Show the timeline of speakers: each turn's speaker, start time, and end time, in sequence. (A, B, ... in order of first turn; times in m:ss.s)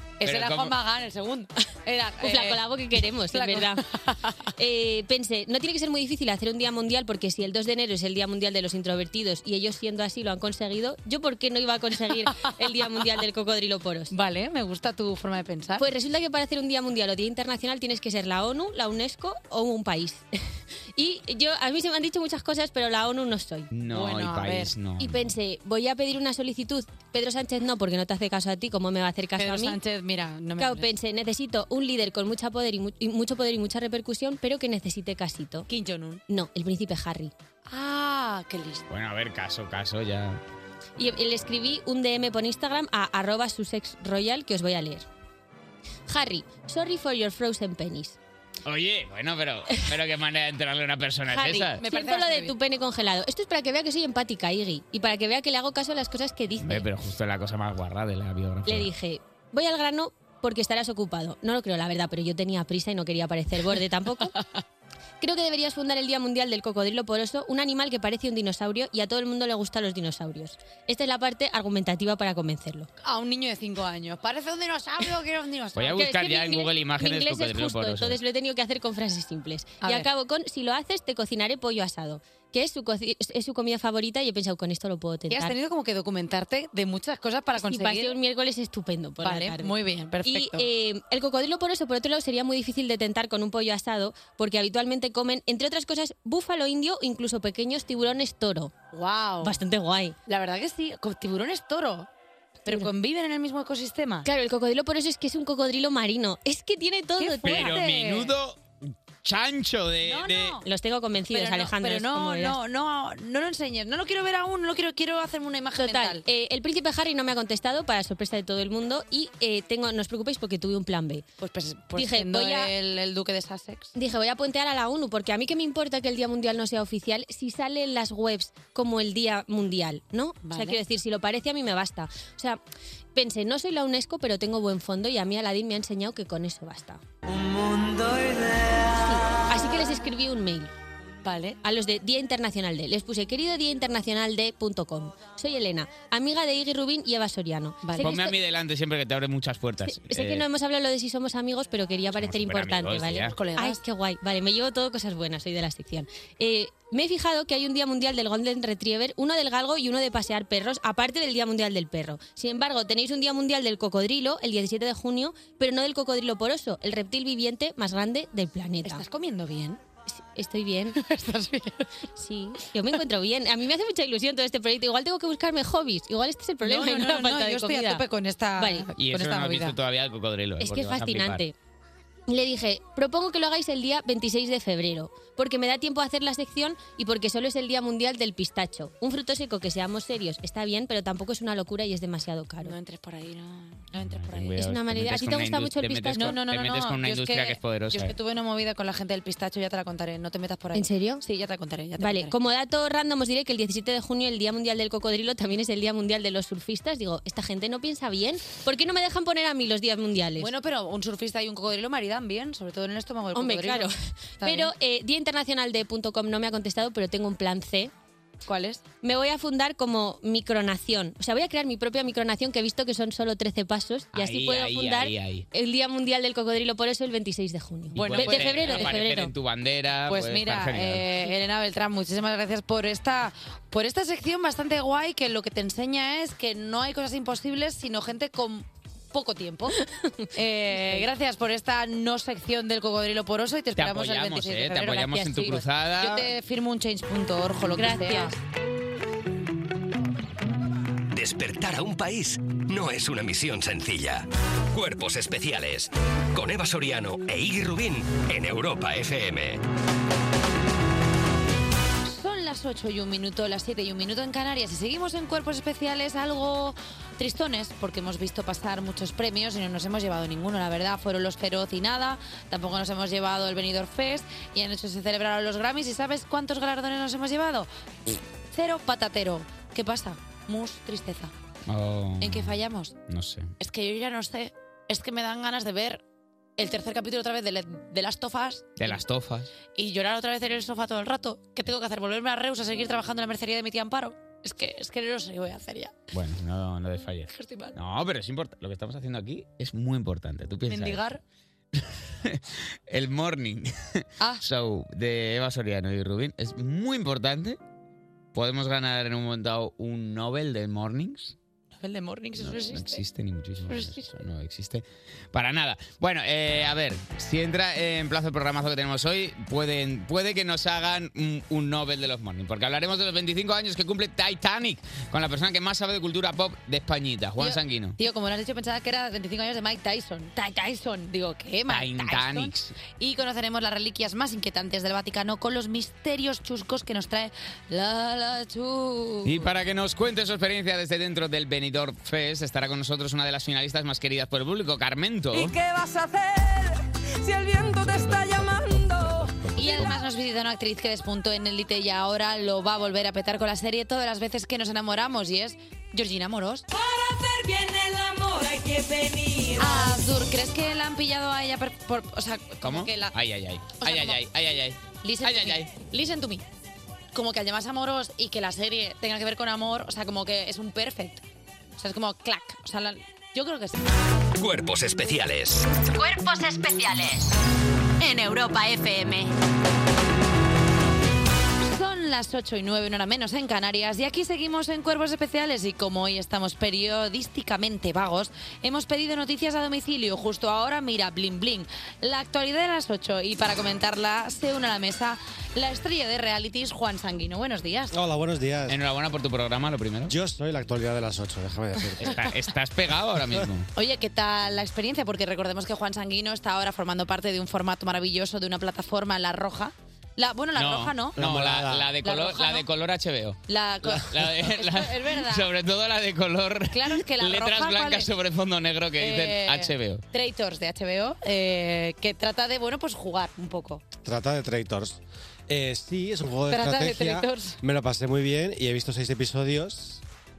0:00.2-0:02.6 A
0:00.2-0:00.7 B
0:02.2-0:03.8 C
0:03.3-0:04.4 A
0:04.6-0:14.1 C
0:14.1-0:15.8 A
0:15.8-0:20.3 C
0:21.0-0:23.7 C
0:23.7-0:25.4 B
0:23.9-0:24.7 A
0:25.0-0:29.8 C
0:29.4-0:30.9 A
0:30.6-0:35.7 C
0:35.7-0:36.2 A
0:36.3-0:37.3 C
0:37.7-0:38.8 A
0:38.9-0:40.4 B
0:41.0-0:45.1 C
0:46.1-0:48.2 C
0:48.7-0:51.8 B
0:51.3-0:56.9 C
0:51.8-0:52.6 A
0:56.6-0:58.9 B
0:58.7-1:04.4 C
1:05.2-1:12.9 C
1:13.0-1:16.0 A
1:15.8-1:18.2 B
1:15.9-1:25.6 C
1:19.8-1:20.1 A
1:25.3-1:28.2 A
1:27.6-1:38.7 C
1:29.2-1:30.7 A
1:38.9-1:39.6 A
1:39.4-1:40.2 C
1:40.3-1:42.1 A
1:42.7-1:44.3 A
1:44.2-1:47.8 C
1:47.2-1:48.3 A
1:47.4-1:48.7 B
1:49.2-1:50.6 B
1:50.0-1:50.7 A
1:50.6-1:52.6 C
1:51.3-1:56.2 A
1:55.8-2:01.3 C
2:01.4-2:04.0 A
2:02.0-2:02.7 C
2:04.0-2:12.6 C
2:10.4-2:10.8 A
2:13.2-2:17.0 C
2:19.0-2:20.7 C
2:21.2-2:21.6 A
2:21.6-2:28.4 C
2:27.8-2:28.1 A
2:28.0-2:30.5 B
2:29.9-2:49.0 C
2:32.2-2:33.4 B
2:33.3-2:33.8 A
2:48.8-2:49.8 A
2:50.1-2:51.0 C
2:51.0-2:51.9 A
2:52.2-2:58.0 C
2:56.6-2:59.8 A
2:58.6-2:58.9 C
2:59.0-3:01.4 B
3:00.6-3:01.5 C
3:02.3-3:12.7 C
3:12.6-3:14.6 A
3:14.0-3:18.1 B
3:14.5-3:16.4 C
3:16.1-3:22.3 A
3:20.7-3:21.2 C
3:22.0-3:30.5 C
3:30.4-3:34.7 A
3:33.4-3:37.9 C
3:38.5-3:38.8 A
3:39.0-3:49.3 C
3:44.1-3:45.5 B
3:47.9-3:49.0 A
3:48.0-3:51.1 B
3:50.1-3:59.8 A
3:59.8-4:01.0 C
4:00.3-4:08.4 A
4:03.8-4:06.3 B
4:07.8-4:08.4 C
4:11.1-4:19.6 D
4:22.0-4:41.3 A
4:41.7-4:42.6 B
4:42.2-4:43.0 A
4:43.1-4:43.5 B
4:43.6-4:46.0 A
4:46.6-4:48.9 A
4:48.8-4:49.5 B
4:49.8-4:56.0 A
4:56.1-5:01.0 B
4:57.3-4:57.8 A
5:00.7-5:01.2 A
5:01.7-5:07.6 B
5:08.4-5:11.4 B
5:11.8-5:13.0 A
5:12.4-5:28.0 B
5:13.7-5:14.0 A
5:27.4-5:39.4 A
5:31.7-5:32.8 B
5:39.2-5:45.6 B
5:45.4-5:49.1 E
5:47.9-5:48.4 F
5:48.9-5:49.5 F
5:49.6-5:56.6 A
5:56.7-6:00.0 E
5:59.6-6:03.2 A
6:02.6-6:05.7 B
6:03.8-6:04.2 A
6:05.0-6:06.4 A
6:07.1-6:11.2 A
6:11.8-6:13.8 A
6:14.4-6:15.7 D
6:15.9-6:17.3 G
6:18.0-6:19.3 G
6:21.6-6:38.0 A
6:37.9-6:38.8 F
6:38.7-6:40.2 B
6:40.1-6:42.3 F
6:42.0-6:43.7 B
6:43.8-6:51.2 A
6:50.6-7:00.0 B
6:51.2-6:51.9 F
6:52.0-6:52.7 A
6:53.5-6:55.5 A
6:56.7-6:58.1 A
6:59.0-7:03.8 A
7:04.0-7:10.0 F
7:06.5-7:07.6 A